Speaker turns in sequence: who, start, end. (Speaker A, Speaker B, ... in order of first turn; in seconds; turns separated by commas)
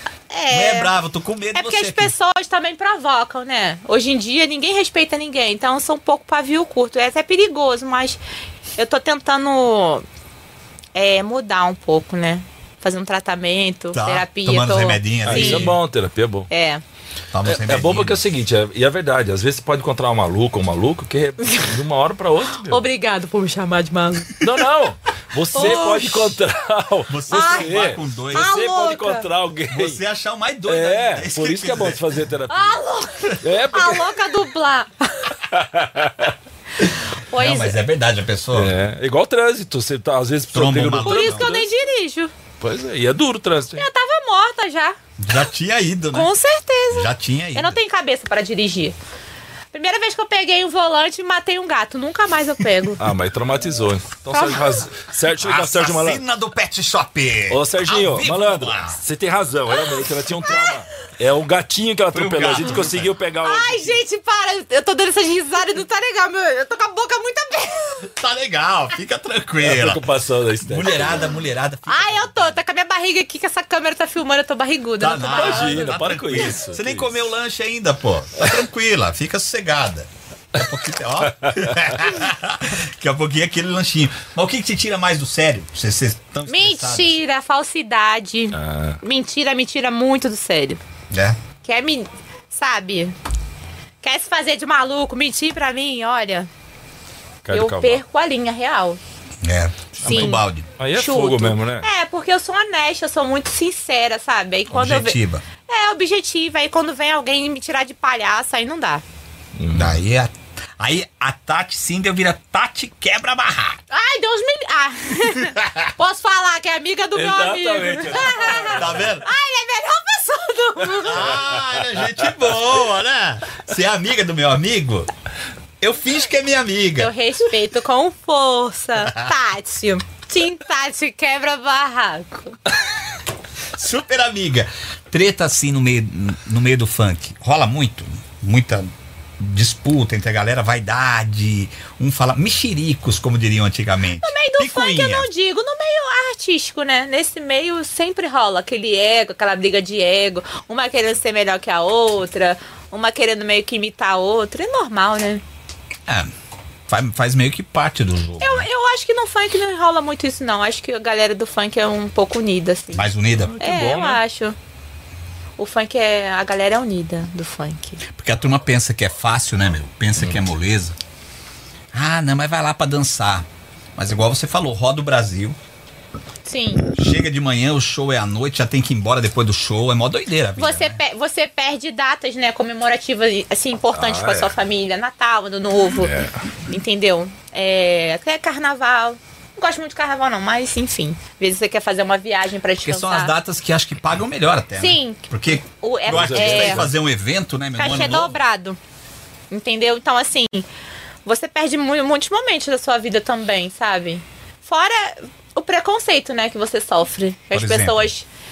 Speaker A: 0.3-0.9, Speaker B: 0.5-2.1, Speaker A: 1.5-8.2, Speaker A: 8.8-10.0, Speaker A: 10.9-15.7, Speaker B: 13.9-15.8, Speaker C: 15.2-16.5, Speaker A: 16.5-16.8, Speaker B: 17.3-18.2, Speaker C: 17.4-22.8, Speaker A: 21.4-21.8, Speaker A: 22.6-24.4, Speaker C: 24.4-30.0, Speaker A: 25.5-26.4, Speaker B: 25.6-26.0, Speaker B: 27.1-28.5, Speaker A: 27.3-27.7, Speaker A: 28.3-29.2, Speaker B: 29.7-32.1, Speaker C: 30.7-32.8, Speaker A: 32.5-35.4, Speaker C: 33.4-34.2, Speaker C: 35.5-36.3, Speaker A: 37.3-37.8, Speaker B: 37.3-38.7, Speaker C: 38.5-41.7, Speaker B: 40.5-41.5, Speaker A: 41.0-42.3, Speaker C: 42.6-43.9, Speaker A: 43.8-45.0, Speaker B: 45.2-46.3, Speaker A: 46.1-49.0, Speaker B: 46.9-47.8, Speaker A: 49.7-53.0, Speaker C: 53.0-56.2, Speaker A: 54.3-54.9, Speaker B: 55.4-59.0, Speaker C: 57.5-64.0, Speaker A: 60.4-60.7, Speaker B: 62.1-63.1, Speaker A: 63.4-68.1, Speaker B: 68.2-70.1, Speaker C: 69.6-71.3, Speaker B: 70.6-72.6, Speaker A: 71.9-76.4, Speaker B: 75.0-87.2, Speaker C: 75.2-77.2, Speaker A: 86.5-90.8, Speaker C: 88.5-89.0, Speaker B: 91.1-91.4, Speaker A: 91.6-93.1, Speaker A: 94.0-96.5, Speaker C: 97.4-98.0, Speaker A: 97.5-99.0, Speaker B: 99.4-100.7, Speaker C: 100.0-101.8, Speaker A: 100.0-100.4, Speaker A: 100.9-109.0, Speaker B: 104.7-105.4, Speaker C: 109.5-110.0, Speaker B: 109.7-113.8, Speaker A: 113.9-121.3, Speaker C: 117.1-119.1, Speaker B: 118.7-119.3, Speaker B: 121.0-125.1, Speaker B: 125.8-127.1, Speaker A: 127.0-132.6, Speaker B: 133.7-145.3, Speaker A: 144.2-155.4, Speaker B: 156.9-158.7, Speaker A: 158.4-163.1, Speaker B: 162.9-163.5, Speaker C: 163.4-164.2, Speaker A: 163.6-164.6, Speaker A: 165.6-168.0, Speaker B: 168.1-170.9, Speaker B: 171.9-175.6, Speaker A: 176.4-176.9, Speaker B: 176.9-181.0, Speaker A: 180.6-186.1, Speaker C: 183.9-184.5, Speaker C: 185.9-186.4, Speaker A: 186.7-193.3, Speaker B: 192.8-198.4, Speaker A: 194.8-195.2, Speaker A: 195.8-196.9, Speaker C: 196.1-196.9, Speaker A: 197.8-198.8, Speaker A: 199.5-200.7, Speaker A: 201.2-208.3, Speaker B: 207.5-208.1